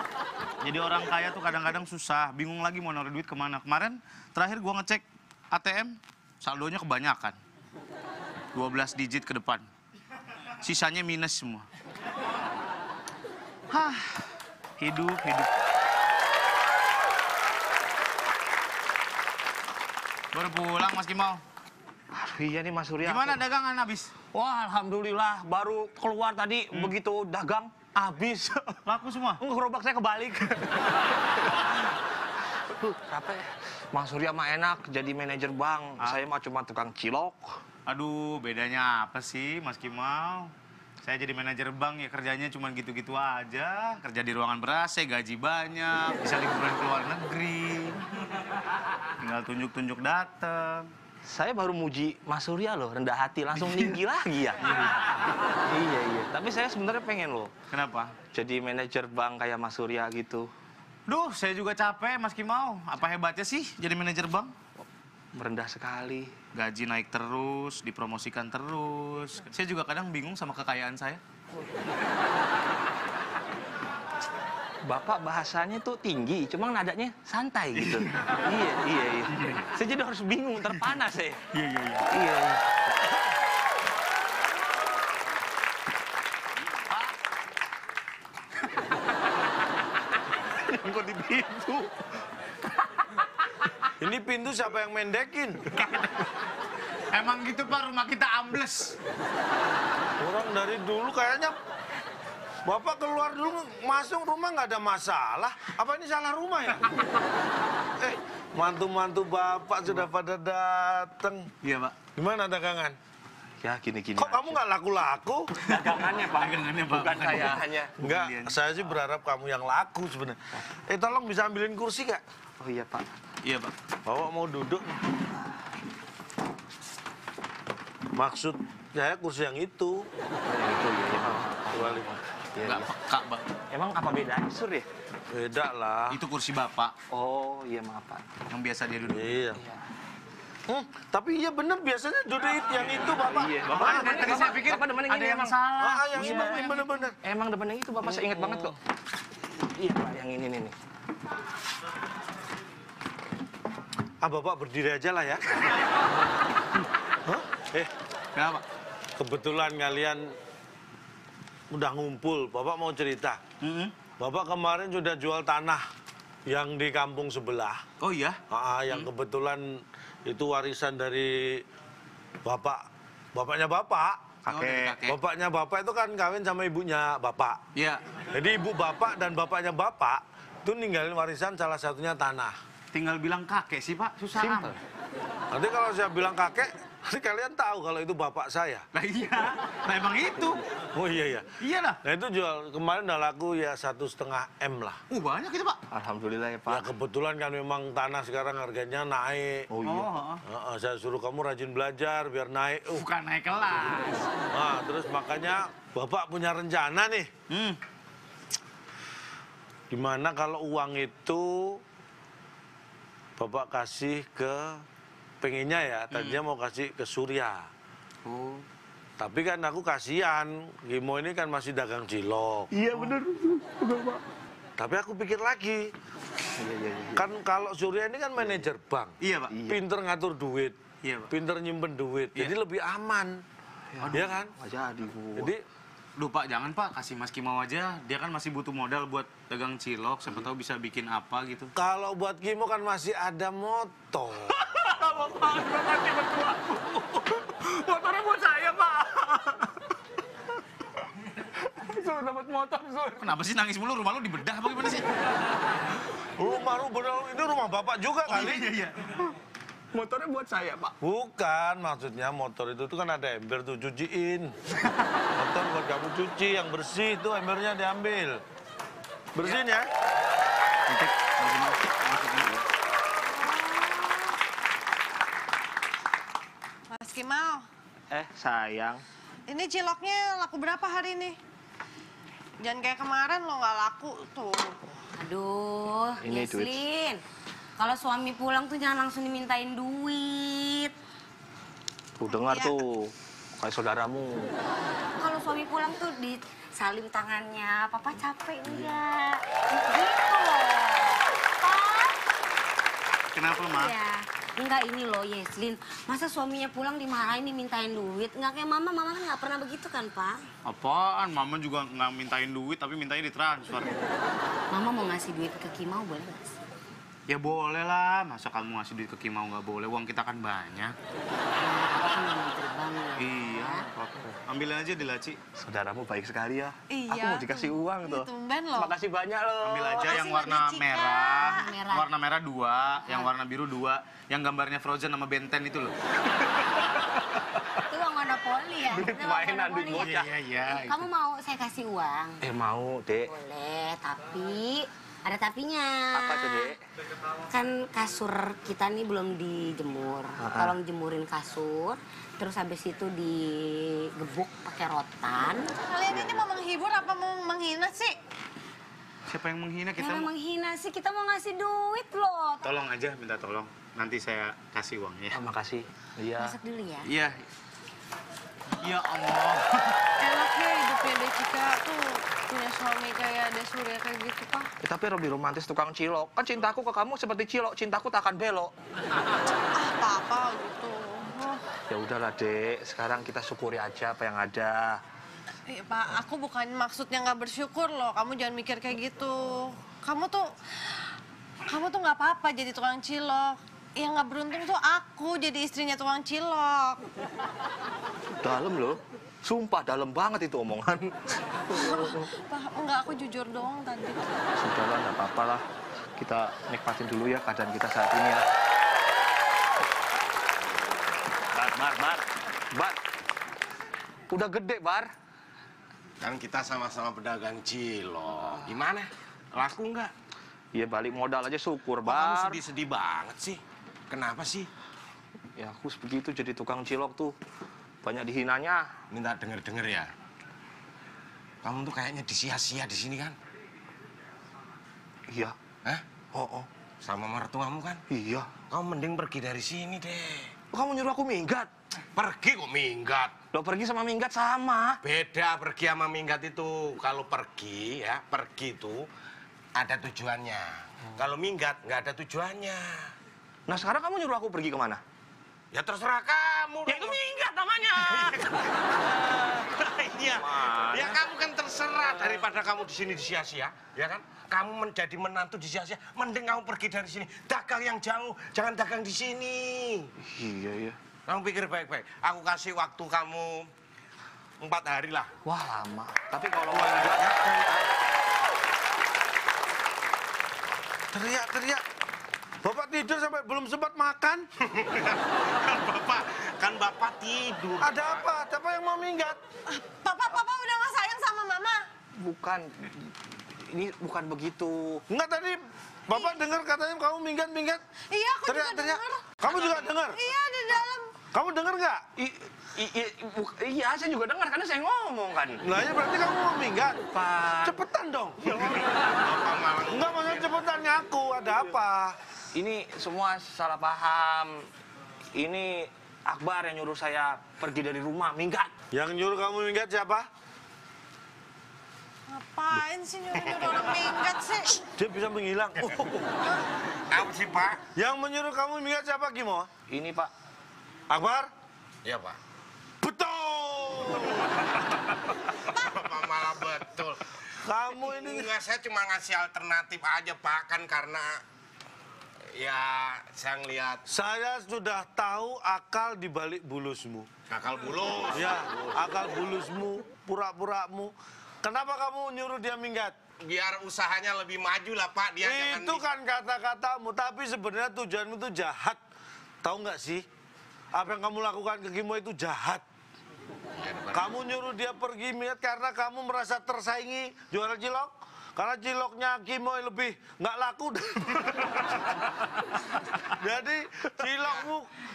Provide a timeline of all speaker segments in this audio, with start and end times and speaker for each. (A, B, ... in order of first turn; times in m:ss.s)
0:00.6-0:07.4 A
0:08.6-0:09.7 A
0:10.6-0:11.7 A
0:13.7-0:14.3 A
0:14.8-0:15.5 A
0:20.3-0:21.4 A
0:22.1-0:23.4 B
0:23.0-0:24.1 A
0:24.3-0:28.8 B
0:28.8-0:29.4 A
0:29.4-0:31.0 B
0:32.7-0:37.6 B
0:37.9-0:48.0 A
0:49.2-0:50.9 A
0:51.2-0:54.6 B
0:53.6-0:54.0 A
0:55.7-0:57.5 B
0:57.7-0:58.2 A
0:58.3-1:00.5 B
1:01.1-1:04.5 A
1:05.3-1:06.4 B
1:06.5-1:11.2 A
1:14.8-1:21.4 B
1:18.0-1:18.4 A
1:19.3-1:19.7 A
1:21.5-1:22.0 A
1:22.1-1:22.8 B
1:30.9-1:31.6 A
1:34.0-1:35.8 C
1:37.1-1:39.0 A
1:40.2-1:41.6 C
1:42.7-1:46.9 C
1:48.0-1:51.5 C
1:51.6-1:52.0 A
1:52.2-1:53.0 C
1:53.6-1:54.6 B
1:54.2-1:55.5 C
1:55.6-1:57.9 B
1:55.7-1:58.8 A
1:58.0-2:02.2 C
2:02.6-2:03.1 B
2:03.4-2:03.7 A
2:04.1-2:05.0 C
2:08.1-2:10.1 C
2:10.4-2:12.9 B
2:11.3-2:12.2 C
2:12.6-2:13.5 A
2:13.7-2:14.9 B
2:15.3-2:16.2 C
2:16.1-2:16.9 A
2:17.1-2:18.2 B
2:18.5-2:19.5 A
2:19.1-2:19.6 C
2:20.7-2:24.5 C
2:23.3-2:25.6 B
2:23.7-2:27.1 A
2:25.8-2:27.2 C
2:26.1-2:26.7 B
2:27.2-2:28.8 B
2:28.1-2:28.8 A
2:29.4-2:30.8 B
2:34.2-2:35.7 C
2:37.3-2:37.9 C
2:38.4-2:38.6 A
2:39.2-2:40.3 C
2:41.7-2:43.4 C
2:43.6-2:44.0 A
2:44.2-2:45.8 C
2:46.5-2:47.8 C
2:48.0-2:49.1 A
2:48.5-2:51.6 C
2:52.4-2:52.8 C
2:53.4-2:54.2 C
2:54.5-2:55.0 B
2:54.5-2:55.2 A
2:55.0-2:57.6 C
2:57.7-2:58.0 A
2:58.3-3:02.6 C
3:02.9-3:04.7 A
3:04.3-3:04.8 B
3:05.5-3:08.9 C
3:08.9-3:10.6 A
3:10.9-3:11.5 C
3:11.6-3:12.0 A
3:12.0-3:15.0 C
3:15.1-3:15.8 A
3:15.9-3:16.9 B
3:16.7-3:19.7 C
3:19.7-3:20.1 B
3:19.8-3:20.4 A
3:20.4-3:23.0 C
3:22.9-3:24.3 A
3:24.5-3:27.3 C
3:27.5-3:27.8 A
3:29.9-3:31.8 C
3:33.4-3:34.8 C
3:35.4-3:37.7 C
3:36.1-3:36.4 A
3:38.2-3:38.7 B
3:39.2-3:42.7 C
3:42.7-3:44.2 B
3:44.8-3:45.9 C
3:46.6-3:47.3 B
3:47.2-3:49.1 C
3:48.4-3:48.7 B
3:49.2-3:49.5 A
3:49.5-3:49.8 B
3:49.7-3:50.8 C
3:51.0-3:51.3 A
3:51.3-3:53.4 C
3:53.9-3:55.5 B
3:54.1-3:54.5 C
3:55.4-3:55.6 C
3:56.2-4:01.7 A
4:01.8-4:04.7 C
4:04.6-4:09.6 B
4:11.4-4:13.3 B
4:13.2-4:15.1 A
4:16.4-4:18.7 C
4:18.3-4:19.3 A
4:19.9-4:21.0 B
4:21.0-4:24.5 C
4:25.3-4:28.4 C
4:29.4-4:29.9 C
4:30.9-4:32.6 A
4:33.5-4:33.9 D
4:36.9-4:37.6 D
4:38.1-4:39.0 B
4:39.5-4:41.4 D
4:42.6-4:44.9 D
4:45.2-4:47.2 E
4:46.2-4:46.8 B
4:47.8-4:50.9 E
4:52.2-4:54.5 B
4:52.2-4:52.7 D
4:55.2-5:02.2 E
4:58.6-4:59.0 B
5:03.3-5:04.0 A
5:03.7-5:10.4 E
5:10.6-5:14.0 A
5:14.7-5:16.5 E
5:17.3-5:21.0 A
5:21.6-5:23.9 E
5:23.2-5:25.4 A
5:25.6-5:30.2 B
5:26.9-5:29.0 D
5:29.6-5:35.9 A
5:30.1-5:31.7 D
5:31.2-5:32.1 E
5:33.0-5:33.3 E
5:37.9-5:42.4 E
5:38.9-5:40.3 B
5:39.9-5:41.1 A
5:42.4-5:43.3 B
5:43.3-5:46.8 E
5:46.1-5:46.8 B
5:47.5-5:55.7 E
5:50.4-5:50.8 B
5:55.9-5:58.2 D
5:59.3-6:00.3 A
6:00.0-6:02.7 E
6:02.6-6:05.4 A
6:05.3-6:06.6 B
6:06.4-6:07.1 E
6:07.1-6:07.4 A
6:08.8-6:10.0 A
6:10.2-6:14.7 D
6:14.8-6:18.7 B
6:19.8-6:21.6 D
6:21.9-6:25.0 B
6:25.7-6:30.5 D
6:31.7-6:37.0 D
6:38.4-6:42.3 B
6:41.7-6:44.3 D
6:44.6-6:45.6 B
6:46.2-6:48.5 B
6:51.5-6:53.0 B
6:54.3-6:55.1 B
6:56.2-7:00.1 F
7:00.7-7:02.6 B
7:02.0-7:04.7 F
7:05.6-7:07.4 B
7:08.0-7:08.9 B
7:09.1-7:10.1 F
7:11.6-7:13.4 F
7:15.3-7:15.6 B
7:16.3-7:16.7 B
7:17.0-7:18.0 F
7:18.1-7:18.5 B
7:18.7-7:20.5 F
7:20.7-7:21.7 B
7:22.2-7:23.3 F
7:23.5-7:25.0 B
7:25.0-7:29.1 F
7:29.8-7:33.1 F
7:33.7-7:35.0 B
7:35.7-7:37.2 F
7:36.9-7:38.4 B
7:37.8-7:50.1 F
7:40.3-7:41.2 B
7:50.2-7:51.0 B
7:51.3-7:53.7 F
7:54.6-7:55.3 F
7:55.4-7:57.8 B
7:56.6-7:57.8 F
8:01.1-8:01.8 C
8:02.6-8:04.5 C
8:04.6-8:08.3 F
8:07.8-8:09.4 C
8:09.7-8:11.8 D
8:12.2-8:15.0 B
8:15.1-8:17.8 C
8:16.1-8:16.4 D
8:18.1-8:21.1 D
8:18.5-8:20.2 C
8:21.3-8:22.0 C
8:22.2-8:25.6 B
8:25.6-8:27.0 C
8:27.1-8:27.8 B
8:27.6-8:28.4 C
8:28.5-8:29.0 B
8:29.1-8:30.5 F
8:29.9-8:32.2 C
8:32.5-8:34.7 B
8:35.4-8:38.7 B
8:38.9-8:40.3 C
8:42.3-8:44.8 D
8:43.4-8:43.7 F
8:45.0-8:46.3 C
8:47.1-8:47.8 F
8:48.0-8:49.7 C
8:49.9-8:50.3 B
8:51.1-8:51.5 C
8:52.0-8:52.4 F
8:53.0-8:54.8 C
8:55.7-8:57.4 F
8:57.6-8:58.5 C
8:58.0-9:01.4 F
9:02.5-9:04.0 F
9:04.1-9:07.3 C
9:07.5-9:09.0 F
9:08.3-9:13.2 C
9:13.4-9:16.0 F
9:15.4-9:19.0 C
9:19.6-9:20.2 C
9:20.9-9:22.8 C
9:23.8-9:24.3 F
9:24.1-9:31.8 C
9:33.2-9:34.9 C